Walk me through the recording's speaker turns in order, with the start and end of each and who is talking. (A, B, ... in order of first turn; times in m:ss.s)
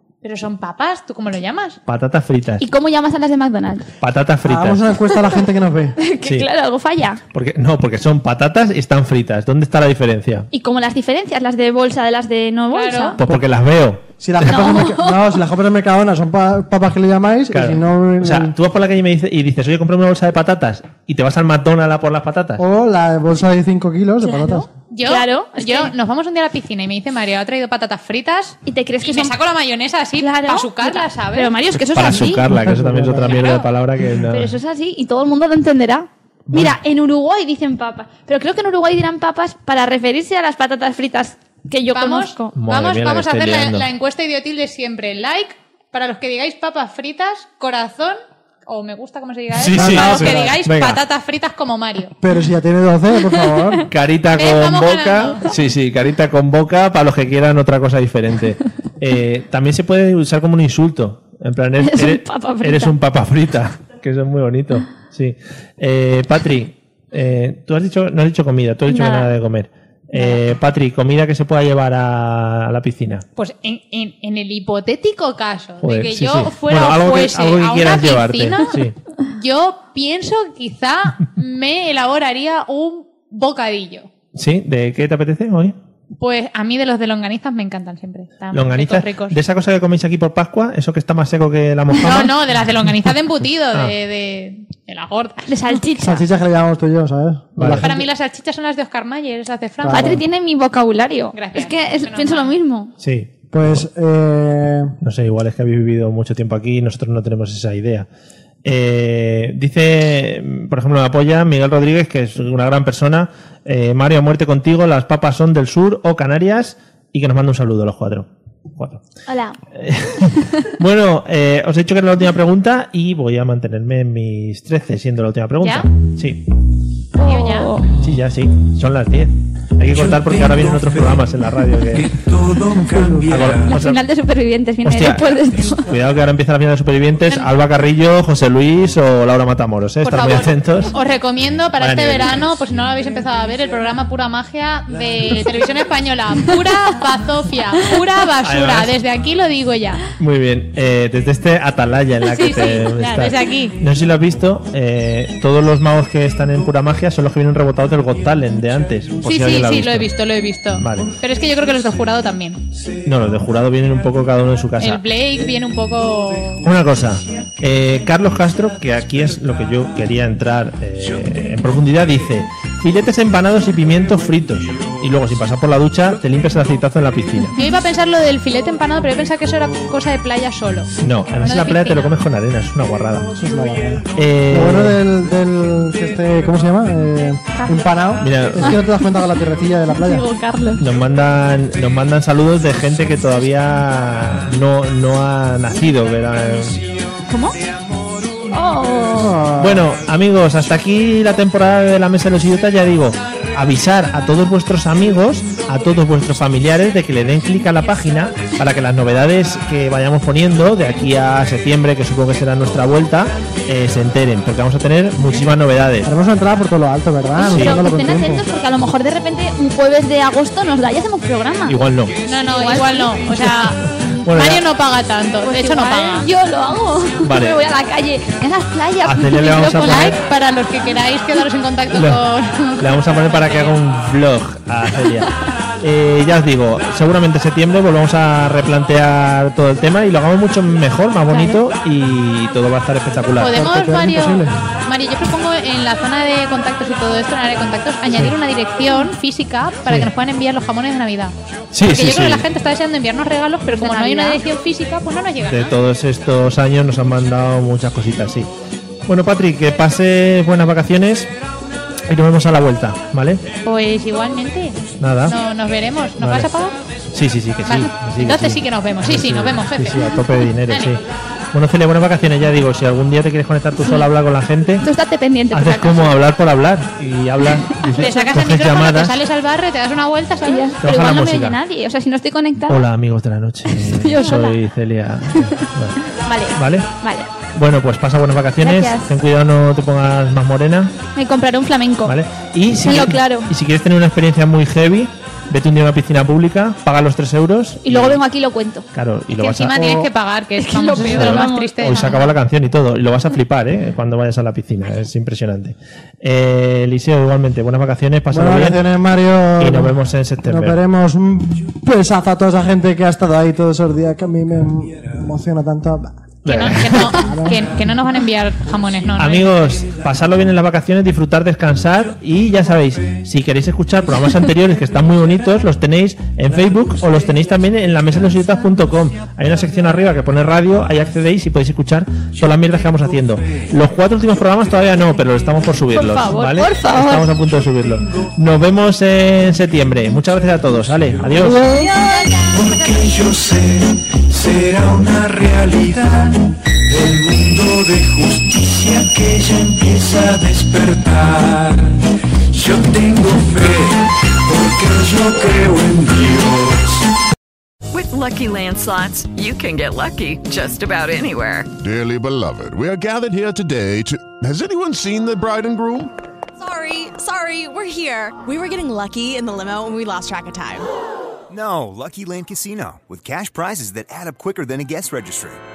0:00.2-0:01.8 A
0:01.9-0:02.6 B
0:02.6-0:03.8 C
0:04.0-0:04.9 B
0:04.4-0:06.0 D
0:06.0-0:07.2 C
0:07.3-0:10.5 B
0:10.5-0:13.2 C
0:12.7-0:13.2 A
0:13.2-0:14.8 B
0:14.2-0:18.5 D
0:14.4-0:15.3 C
0:17.5-0:22.6 B
0:22.6-0:24.7 D
0:24.2-0:25.9 C
0:24.9-0:31.5 A
0:28.6-0:29.4 C
0:30.2-0:32.4 C
0:31.9-0:34.6 B
0:32.3-0:33.4 D
0:34.3-0:42.5 C
0:36.5-0:36.8 B
0:41.9-0:52.1 A
0:42.6-0:43.9 B
0:49.5-0:51.0 B
0:49.7-0:50.6 D
0:52.2-0:53.8 D
0:53.9-1:13.2 B
0:54.4-0:55.4 A
1:01.8-1:02.9 C
1:08.9-1:09.3 C
1:13.4-1:24.1 A
1:15.8-1:18.9 B
1:24.3-1:25.8 B
1:26.2-1:29.4 A
1:28.5-1:32.4 B
1:31.9-1:35.8 A
1:35.5-1:36.2 C
1:36.0-1:38.0 D
1:37.6-1:38.0 B
1:37.8-1:40.2 A
1:39.8-1:40.2 D
1:39.8-1:42.9 C
1:41.3-1:42.5 A
1:43.0-1:43.8 B
1:43.5-1:44.9 D
1:45.0-1:48.1 B
1:48.6-1:59.0 B
1:59.3-1:59.6 C
1:59.7-2:06.4 B
2:05.6-2:05.9 A
2:07.2-2:07.9 C
2:07.2-2:07.8 A
2:07.9-2:12.2 B
2:10.0-2:11.2 E
2:11.9-2:13.7 E
2:13.2-2:14.0 B
2:13.6-2:15.9 C
2:14.8-2:20.9 B
2:20.0-2:30.0 A
2:21.8-2:22.4 B
2:28.4-2:28.9 B
2:30.2-2:40.1 B
2:32.3-2:33.8 A
2:39.2-2:42.6 A
2:40.8-2:41.1 B
2:43.0-2:45.0 B
2:44.8-2:46.6 A
2:46.6-2:57.5 B
2:57.5-3:00.9 A
3:01.0-3:03.3 B
3:01.4-3:02.1 A
3:03.4-3:10.2 D
3:04.1-3:05.0 B
3:08.2-3:08.8 B
3:09.9-3:10.8 C
3:10.8-3:16.8 B
3:17.3-3:17.6 C
3:18.5-3:19.4 C
3:19.1-3:19.9 D
3:19.6-3:36.1 B
3:36.0-3:38.4 D
3:37.4-3:41.8 C
3:37.5-3:37.8 B
3:41.7-3:42.1 B
3:42.3-3:46.3 A
3:42.4-3:43.2 C
3:44.1-3:44.6 B
3:45.4-3:50.1 C
3:47.2-3:47.6 B
3:49.0-3:50.2 B
3:49.7-3:53.8 A
3:51.9-3:52.2 B
3:52.8-4:03.6 B
4:01.3-4:01.6 C
4:03.4-4:15.7 A
4:03.5-4:04.5 D
4:11.7-4:12.4 B
4:13.7-4:14.4 C
4:15.5-4:18.5 B
4:19.1-4:21.3 B
4:22.1-4:23.4 B
4:23.6-4:26.8 A
4:25.0-4:25.4 B
4:26.2-4:26.5 B
4:27.1-4:31.0 B
4:27.6-4:30.0 A
4:30.7-4:31.0 A
4:31.5-4:34.8 B
4:33.8-4:34.1 C
4:34.8-4:36.1 C
4:35.5-4:39.2 B
4:38.0-4:40.7 A
4:40.4-4:42.8 C
4:40.8-4:41.6 B
4:42.7-4:46.0 B
4:43.7-4:44.6 C
4:45.4-4:47.3 C
4:46.5-4:46.9 B
4:47.5-4:50.9 B
4:48.6-4:49.1 C
4:51.1-4:52.2 C
4:52.0-4:58.2 B
4:52.8-4:53.5 C
4:57.8-4:58.8 C
4:58.9-5:00.1 B
4:59.4-5:02.3 A
5:00.6-5:02.3 C
5:01.1-5:08.8 B
5:08.3-5:09.9 D
5:09.6-5:10.8 B
5:10.4-5:16.2 D
5:16.4-5:17.2 B
5:16.4-5:19.7 A
5:17.1-5:17.6 D
5:19.2-5:41.8 B
5:35.9-5:37.2 C
5:41.5-5:42.2 C
5:42.4-5:57.0 E
5:57.9-6:01.7 F
6:01.8-6:06.1 G
6:06.6-6:10.9 H
6:11.5-6:15.6 I